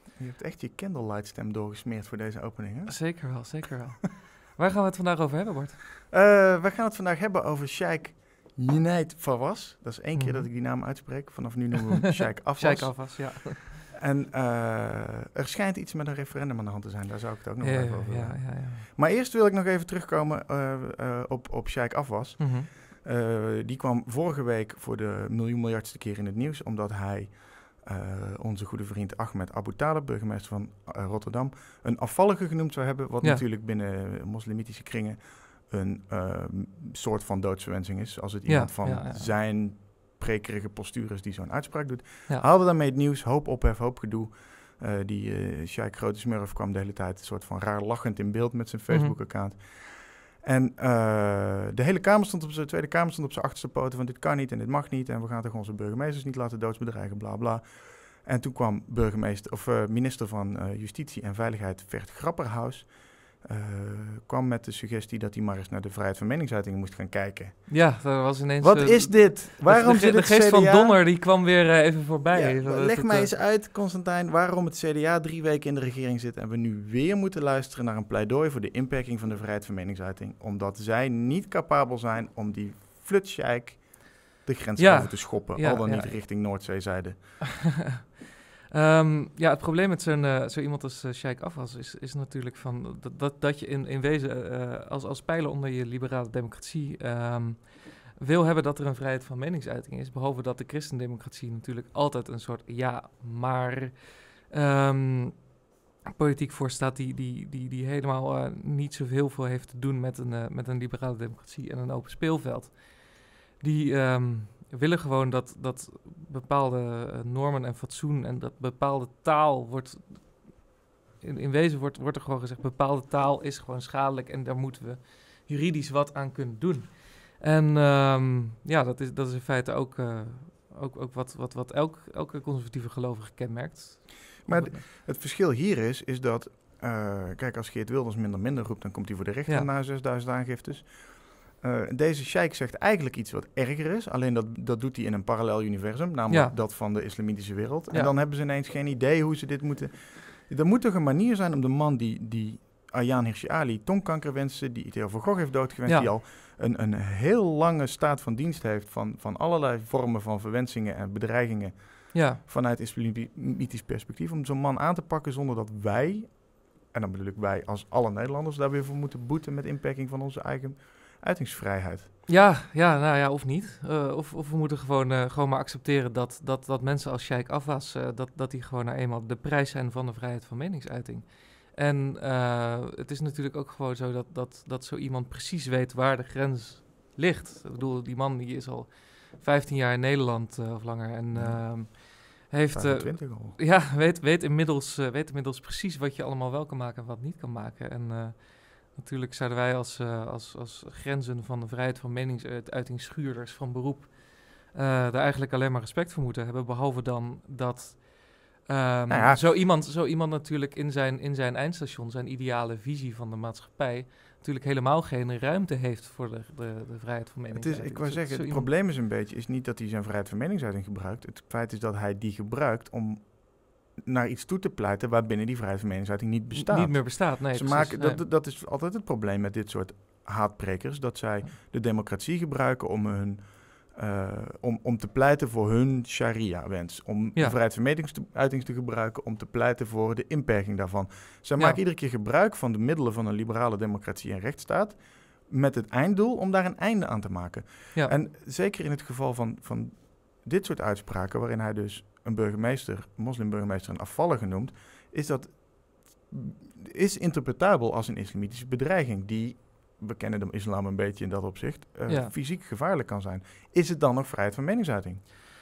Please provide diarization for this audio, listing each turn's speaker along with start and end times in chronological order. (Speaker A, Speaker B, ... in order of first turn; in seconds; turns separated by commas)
Speaker A: 0.1-3.6, Speaker B: 2.9-5.8, Speaker A: 6.1-71.0, Speaker B: 10.1-10.5, Speaker B: 12.5-13.8, Speaker B: 17.6-18.9, Speaker B: 22.4-22.7, Speaker B: 38.5-39.3, Speaker B: 48.9-49.1, Speaker B: 67.7-73.3, Speaker A: 72.3-87.4, Speaker B: 84.8-86.6, Speaker B: 88.7-105.5, Speaker B: 106.0-134.8, Speaker A: 134.4-172.1, Speaker B: 146.3-146.5, Speaker B: 162.1-162.4, Speaker B: 172.2-218.7, Speaker A: 191.3-192.1, Speaker A: 192.7-193.6, Speaker A: 209.1-209.4, Speaker A: 217.5-265.2, Speaker B: 226.5-228.2, Speaker B: 241.6-241.8, Speaker B: 262.1-262.3